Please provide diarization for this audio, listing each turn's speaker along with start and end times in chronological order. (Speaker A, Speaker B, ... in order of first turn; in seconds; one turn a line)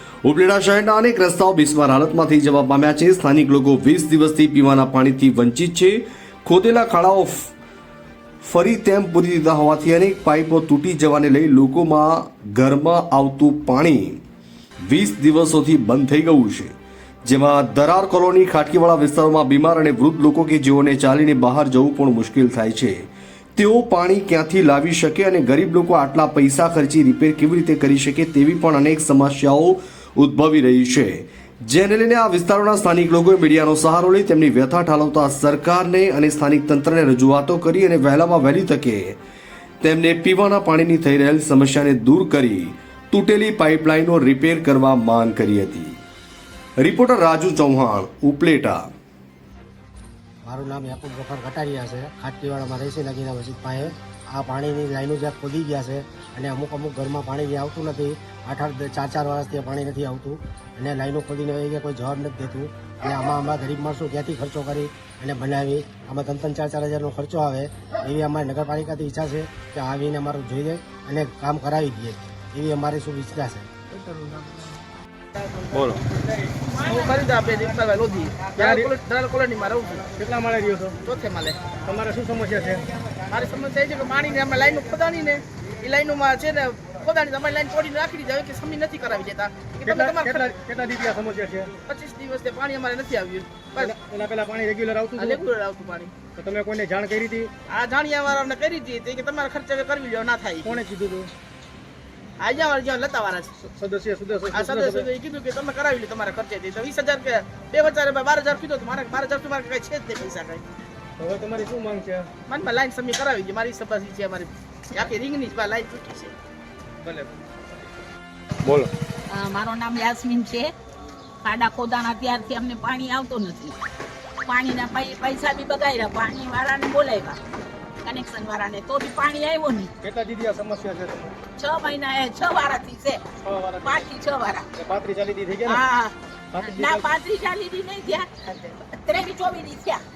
Speaker A: 0.2-7.5
Speaker A: 8.4-14.2
Speaker A: 14.8-39.2
Speaker A: 39.8-46.0
Speaker A: 46.8-48.9
Speaker B: 50.4-73.7
Speaker C: 76.8-80.1
Speaker D: 78.6-78.9
Speaker D: 80.1-81.0
Speaker C: 81.0-81.6
Speaker D: 81.8-82.9
Speaker C: 83.3-90.5
Speaker D: 89.8-91.7
Speaker C: 91.8-93.9
Speaker D: 93.8-95.4
Speaker C: 95.2-96.1
Speaker D: 96.3-97.5
Speaker C: 97.7-100.8
Speaker D: 100.6-101.3
Speaker C: 102.4-103.5
Speaker D: 103.6-105.1
Speaker C: 104.5-110.6
Speaker D: 111.2-112.3
Speaker C: 112.5-116.3
Speaker C: 117.0-117.3
Speaker E: 119.3-120.7
Speaker E: 121.4-123.8
Speaker E: 124.5-127.4
Speaker E: 128.0-129.9
Speaker D: 130.0-131.4
Speaker E: 131.6-133.2
Speaker D: 133.4-134.2
Speaker E: 133.9-134.6
Speaker D: 134.7-135.8
Speaker E: 135.7-136.1
Speaker D: 136.5-137.2
Speaker E: 137.0-138.3
Speaker C: 138.4-138.8
Speaker E: 138.8-140.0